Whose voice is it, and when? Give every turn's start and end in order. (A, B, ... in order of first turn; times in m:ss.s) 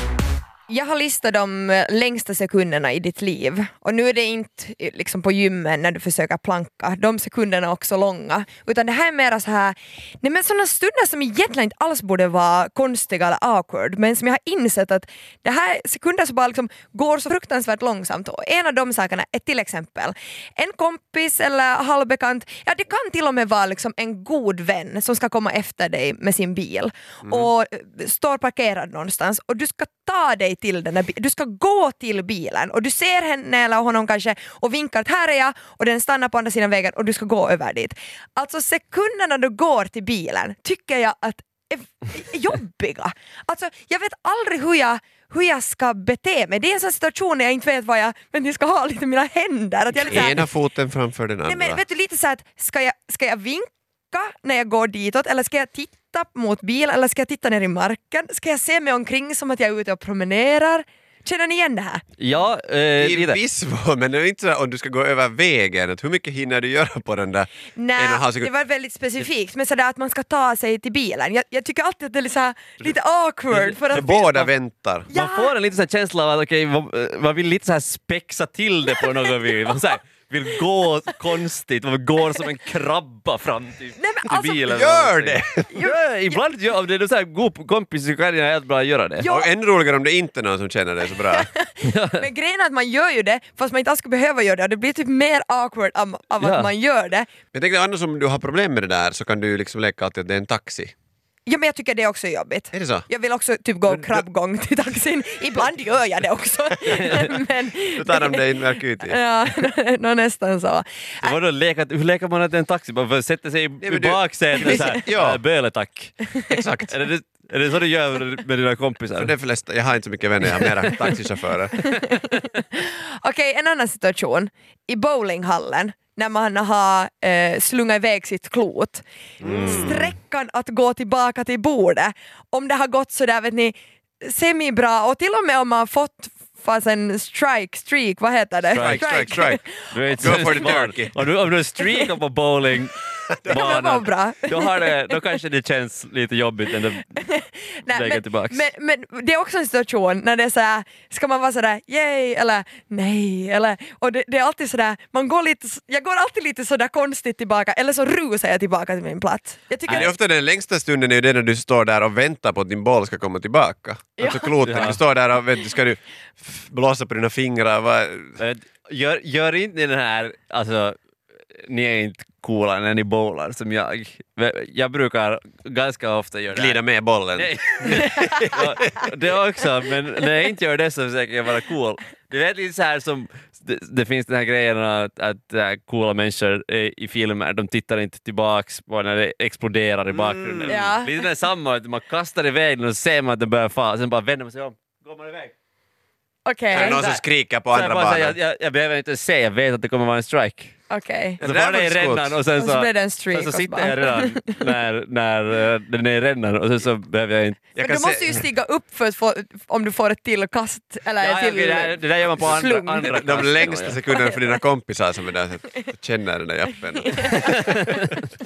0:00.7-0:50.4 A
0:27.2-0:27.5 B
0:50.0-0:51.8 B
0:51.4-1:02.0 A
1:02.2-1:03.4 C
1:03.0-1:08.5 B
1:07.8-1:14.3 A
1:13.5-1:14.5 C
1:13.9-1:15.1 B
1:15.1-1:15.5 A
1:15.1-1:29.3 C
1:24.0-1:24.6 A
1:24.7-1:25.7 B
1:25.7-1:26.4 A
1:29.2-1:29.5 A
1:29.2-1:31.5 B
1:31.2-1:37.3 A
1:31.8-1:32.2 C
1:36.4-1:36.7 C
1:37.5-1:40.9 B
1:41.5-1:48.5 A
1:42.7-1:43.1 B
1:46.9-1:47.4 C
1:47.9-1:49.2 B
1:49.0-1:51.3 A
1:51.2-1:59.4 C
1:53.8-1:55.4 B
1:54.6-1:55.0 A
1:56.5-1:56.9 B
1:59.2-2:01.9 B
2:01.8-2:20.6 A
2:09.4-2:10.1 B
2:18.7-2:27.1 C
2:18.7-2:19.6 B
2:20.2-2:21.2 B
2:21.8-2:22.1 A
2:23.5-2:25.2 A
2:27.1-2:40.1 A
2:27.9-2:28.7 C
2:39.9-2:48.4 B
2:44.2-2:44.9 A
2:44.6-2:45.0 C
2:48.4-2:51.0 C
2:51.6-2:56.8 C
2:56.5-2:59.0 B
2:57.4-3:15.5 C
3:10.1-3:10.8 B
3:10.7-3:11.1 A
3:16.4-3:17.2 A
3:16.7-3:18.4 B
3:16.8-3:17.2 C
3:17.7-3:20.8 C
3:20.9-3:21.4 A
3:21.4-3:22.4 B
3:21.4-3:27.6 C
3:22.6-3:24.7 A
3:27.8-3:28.4 B
3:27.8-3:33.5 A
3:31.2-3:34.0 C
3:33.0-3:38.0 B
3:34.1-3:34.5 A
3:37.0-3:37.9 A